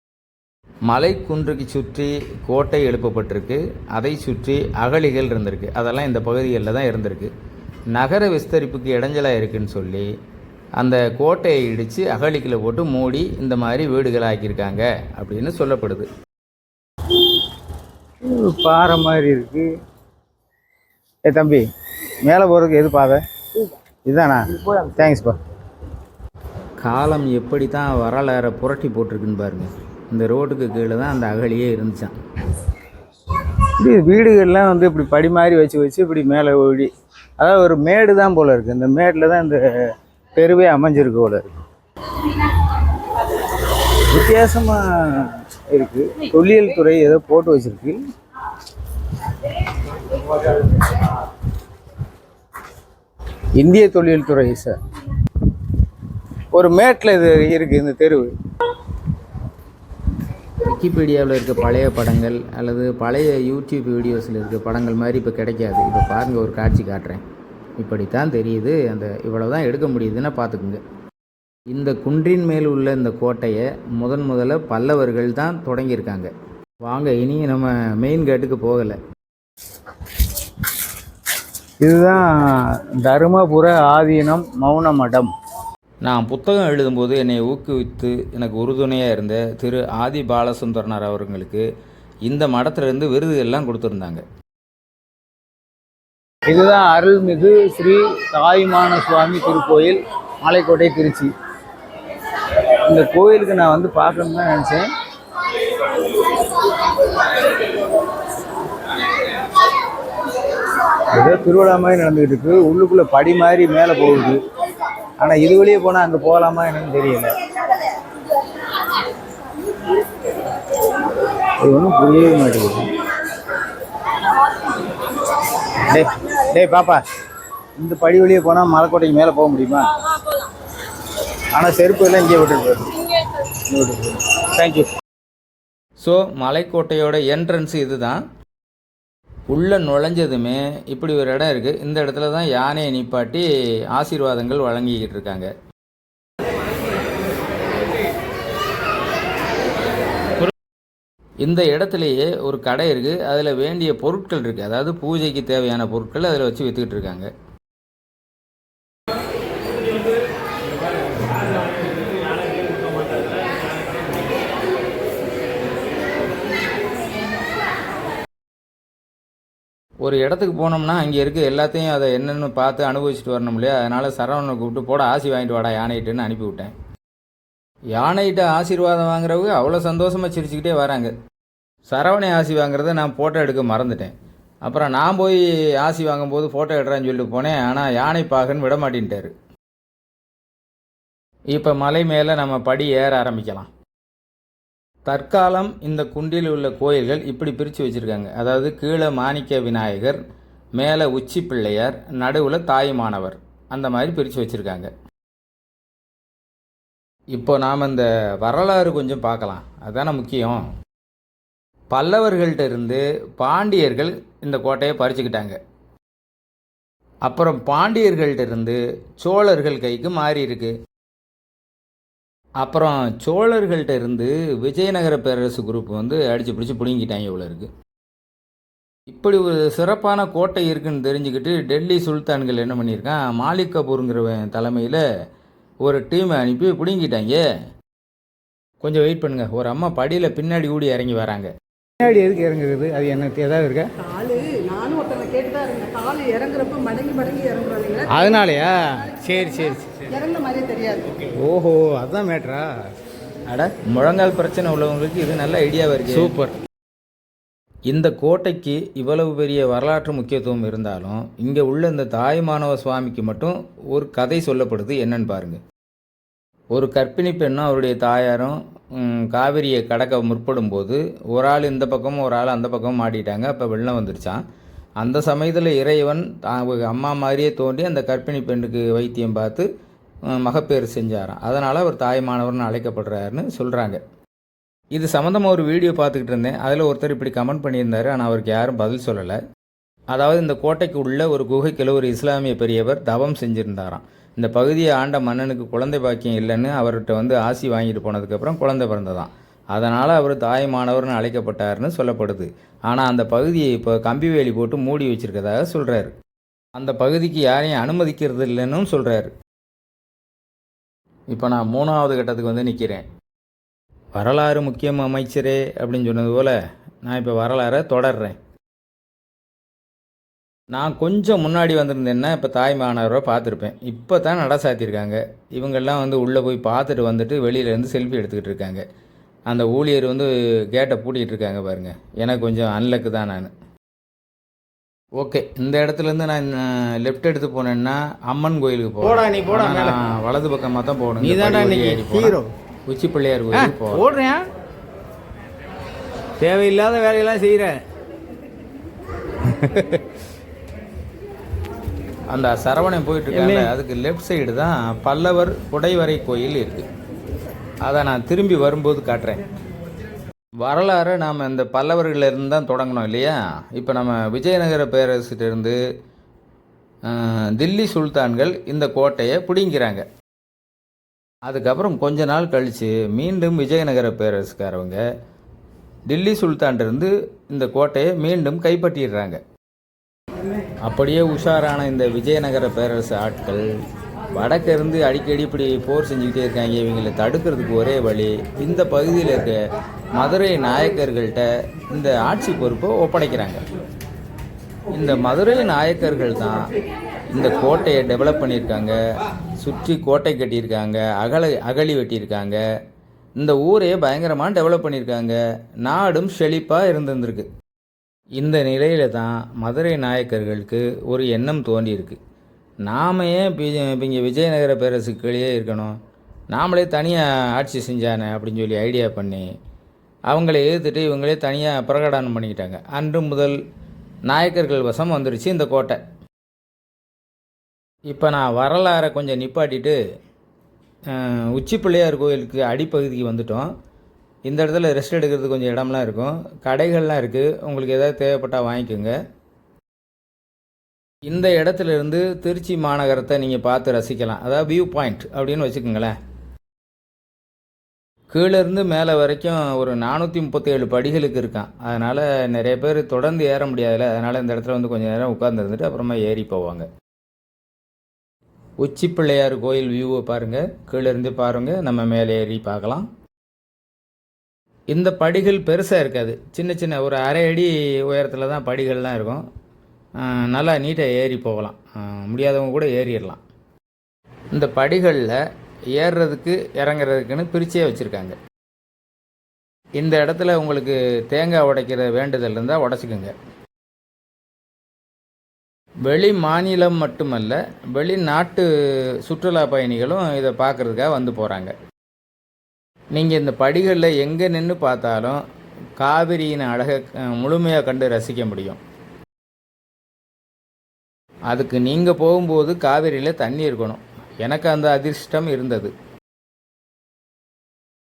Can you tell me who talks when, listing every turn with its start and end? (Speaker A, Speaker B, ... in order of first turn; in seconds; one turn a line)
Speaker A: 0.9-7.3
Speaker A: 7.9-10.1
Speaker A: 10.8-16.1
Speaker B: 18.2-19.7
Speaker B: 21.2-21.7
Speaker B: 22.2-23.2
Speaker B: 24.0-25.4
Speaker A: 26.8-32.1
Speaker B: 33.4-39.7
Speaker B: 40.3-41.6
Speaker B: 42.2-48.0
Speaker B: 49.4-51.2
Speaker B: 53.5-54.8
Speaker B: 56.5-58.3
Speaker A: 60.6-67.2
Speaker A: 67.8-70.8
Speaker A: 71.7-76.3
Speaker A: 76.8-79.0
Speaker B: 81.8-85.3
Speaker A: 86.0-91.7
Speaker A: 92.2-94.2
Speaker B: 96.5-101.3
Speaker B: 102.9-104.9
Speaker B: 111.1-114.4
Speaker B: 115.2-117.3
Speaker B: 121.6-122.9
Speaker B: 125.6-127.0
Speaker B: 127.8-129.9
Speaker B: 131.5-134.9
Speaker A: 136.0-138.2
Speaker A: 139.5-145.5
Speaker A: 151.4-157.3
Speaker A: 170.0-176.7
Speaker A: 177.9-181.1
Speaker A: 181.9-184.1
Speaker A: 184.6-189.3
Speaker A: 191.5-193.7
Speaker A: 195.1-200.2
Speaker A: 200.8-204.9
Speaker A: 207.3-210.6
Speaker A: 211.9-215.6
Speaker A: 217.2-220.7
Speaker A: 222.6-227.7
Speaker A: 229.1-235.0
Speaker A: 235.8-237.4
Speaker A: 238.8-241.5
Speaker B: 242.0-243.9
Speaker C: 244.0-248.4
Speaker B: 248.1-249.9
Speaker C: 249.6-251.1
Speaker B: 251.3-252.9
Speaker A: 253.5-256.3
Speaker B: 256.1-256.5
Speaker A: 257.9-265.6
Speaker A: 266.7-274.4
Speaker A: 275.0-279.7
Speaker A: 280.3-284.0
Speaker A: 284.9-289.4
Speaker A: 290.1-306.1
Speaker A: 306.7-309.3
Speaker A: 311.3-313.1
Speaker A: 314.1-318.4
Speaker A: 320.7-328.8
Speaker A: 329.5-333.5
Speaker A: 335.2-342.4
Speaker B: 339.0-340.0
Speaker B: 341.2-342.5
Speaker A: 342.9-344.1
Speaker B: 343.5-344.4
Speaker B: 346.4-347.7
Speaker B: 349.5-350.0
Speaker A: 352.3-356.9
Speaker B: 353.3-353.7
Speaker A: 357.8-359.4
Speaker A: 360.6-365.8
Speaker A: 367.1-370.0
Speaker A: 371.5-375.0
Speaker A: 376.1-379.4
Speaker A: 380.8-383.7
Speaker A: 384.3-389.6
Speaker A: 390.2-393.6
Speaker A: 394.9-396.7
Speaker A: 397.3-399.0
Speaker A: 399.6-402.6
Speaker A: 403.4-407.5
Speaker A: 408.4-412.2
Speaker A: 412.8-415.9
Speaker A: 416.5-419.5
Speaker A: 420.3-423.6
Speaker A: 424.2-426.0
Speaker A: 428.1-430.0
Speaker A: 431.1-433.7
Speaker A: 434.5-439.1
Speaker A: 441.2-446.1
Speaker A: 448.3-456.9
Speaker A: 458.8-463.1
Speaker A: 464.9-469.4
Speaker A: 470.2-473.4
Speaker A: 474.5-475.4
Speaker A: 475.9-478.4
Speaker A: 480.0-483.3
Speaker A: 486.1-488.7
Speaker A: 489.2-491.7
Speaker A: 493.1-495.4
Speaker A: 496.0-498.8
Speaker A: 501.5-505.9